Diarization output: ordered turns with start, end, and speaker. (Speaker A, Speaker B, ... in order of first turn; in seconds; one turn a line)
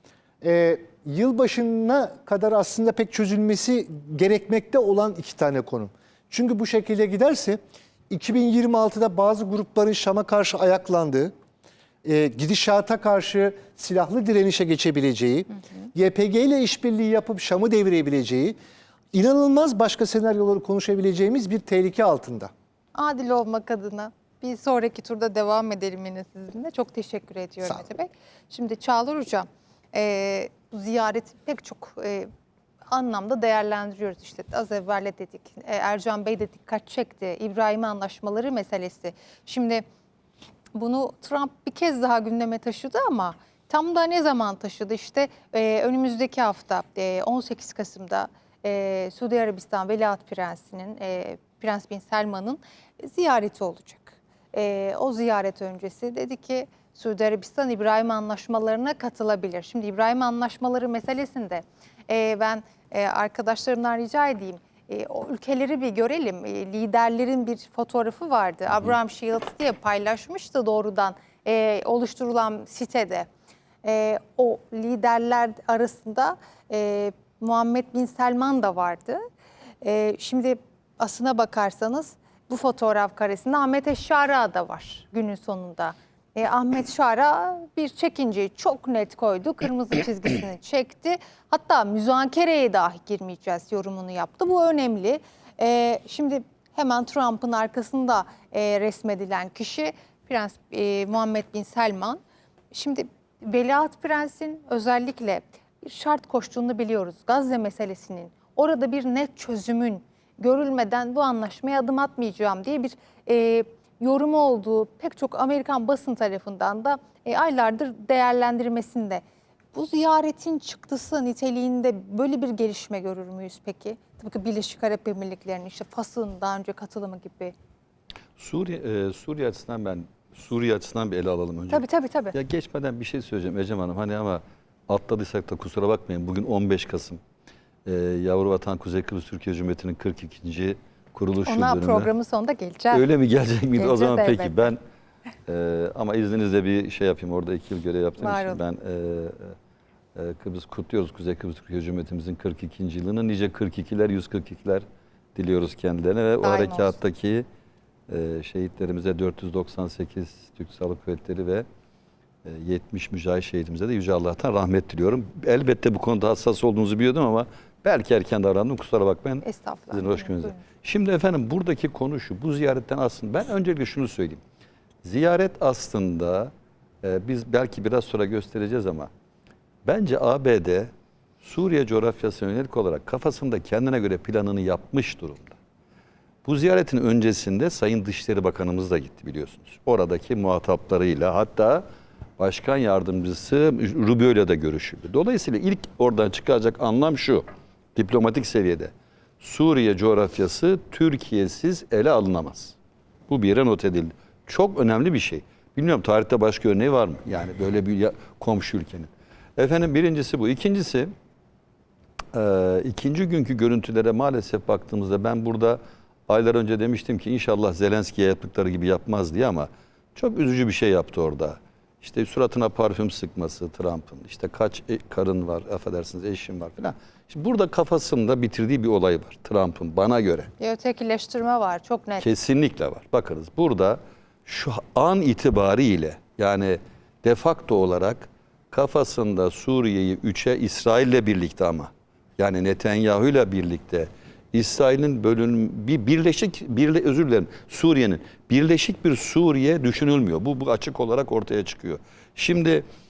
Speaker A: 0.4-11.3
Speaker A: 12.0-18.6
Speaker A: 19.1-22.5
Speaker B: 22.9-32.3
Speaker B: 32.9-39.8
Speaker B: 40.7-73.3
Speaker B: 73.8-79.2
Speaker B: 79.8-102.2
Speaker B: 102.7-119.2
Speaker B: 119.7-127.5
Speaker C: 128.4-137.2
Speaker B: 131.7-132.3
Speaker C: 137.8-142.1
Speaker B: 141.4-143.1
Speaker C: 142.9-144.8
Speaker B: 143.8-144.7
Speaker C: 145.5-149.5
Speaker B: 148.2-148.6
Speaker C: 150.1-154.8
Speaker C: 155.3-157.4
Speaker B: 156.4-157.0
Speaker C: 158.1-161.6
Speaker C: 162.4-174.4
Speaker B: 169.4-170.6
Speaker C: 175.0-176.5
Speaker C: 177.0-179.1
Speaker C: 179.8-180.9
Speaker C: 181.4-185.6
Speaker C: 186.4-191.8
Speaker C: 192.4-202.8
Speaker C: 203.3-211.1
Speaker C: 212.3-230.5
Speaker B: 230.6-232.3
Speaker C: 232.2-252.8